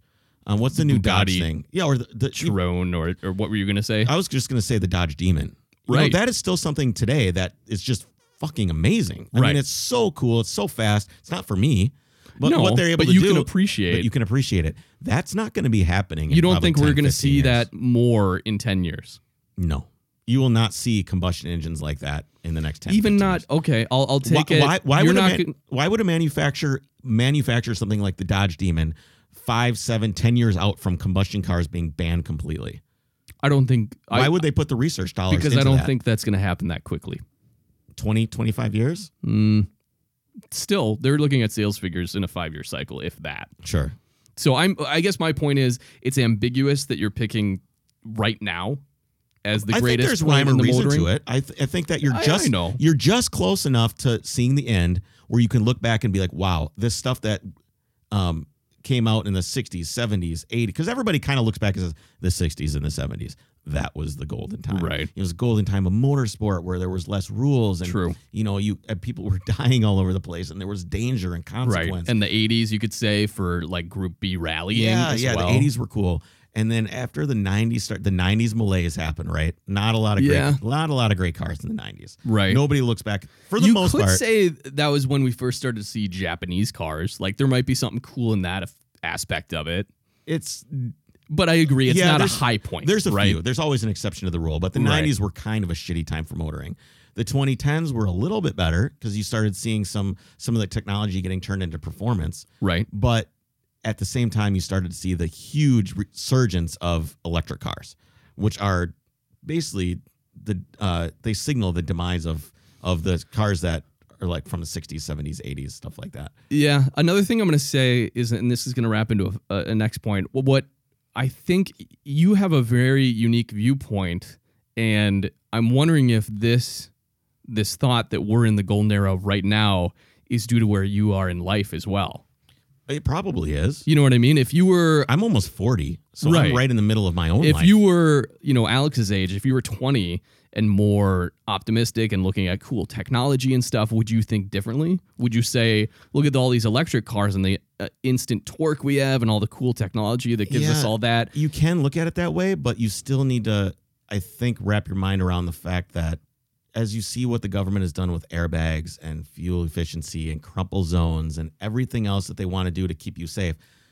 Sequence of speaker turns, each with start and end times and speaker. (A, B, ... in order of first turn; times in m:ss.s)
0:00.5-0:02.6 A
0:00.7-0:01.5 B
0:02.3-0:04.1 B
0:04.0-0:17.7 A
0:05.9-0:06.2 B
0:09.3-0:09.6 B
0:12.4-0:14.1 B
0:16.3-0:19.2 B
0:19.6-0:23.4 A
0:22.9-0:25.5 B
0:24.2-0:32.8 A
0:33.4-0:34.4 B
0:34.1-0:35.9 A
0:35.3-0:37.2 B
0:38.0-0:39.1 A
0:39.2-0:39.7 B
0:40.5-0:43.5 B
0:43.6-0:43.9 A
0:44.4-0:48.8 B
0:49.4-0:51.1 B
0:49.5-0:57.4 A
0:52.0-0:52.8 B
0:58.1-1:12.1 A
1:04.7-1:05.1 B
1:07.8-1:08.2 B
1:11.6-1:15.7 B
1:14.7-1:24.2 A
1:20.2-1:20.6 B
1:22.2-1:22.6 B
1:23.6-1:29.9 B
1:30.3-1:30.9 A
1:31.3-1:33.4 B
1:31.8-1:43.3 A
1:34.7-1:35.1 B
1:42.6-1:42.9 B
1:43.8-1:48.9 A
1:49.4-1:56.3 A
1:56.5-2:06.9 B
2:07.5-2:12.2 B
2:12.9-2:13.9 A
2:13.9-2:15.1 B
2:15.1-2:17.8 A
2:16.2-2:16.6 B
2:17.4-2:31.3 B
2:30.5-2:36.2 A
2:36.7-2:43.6 A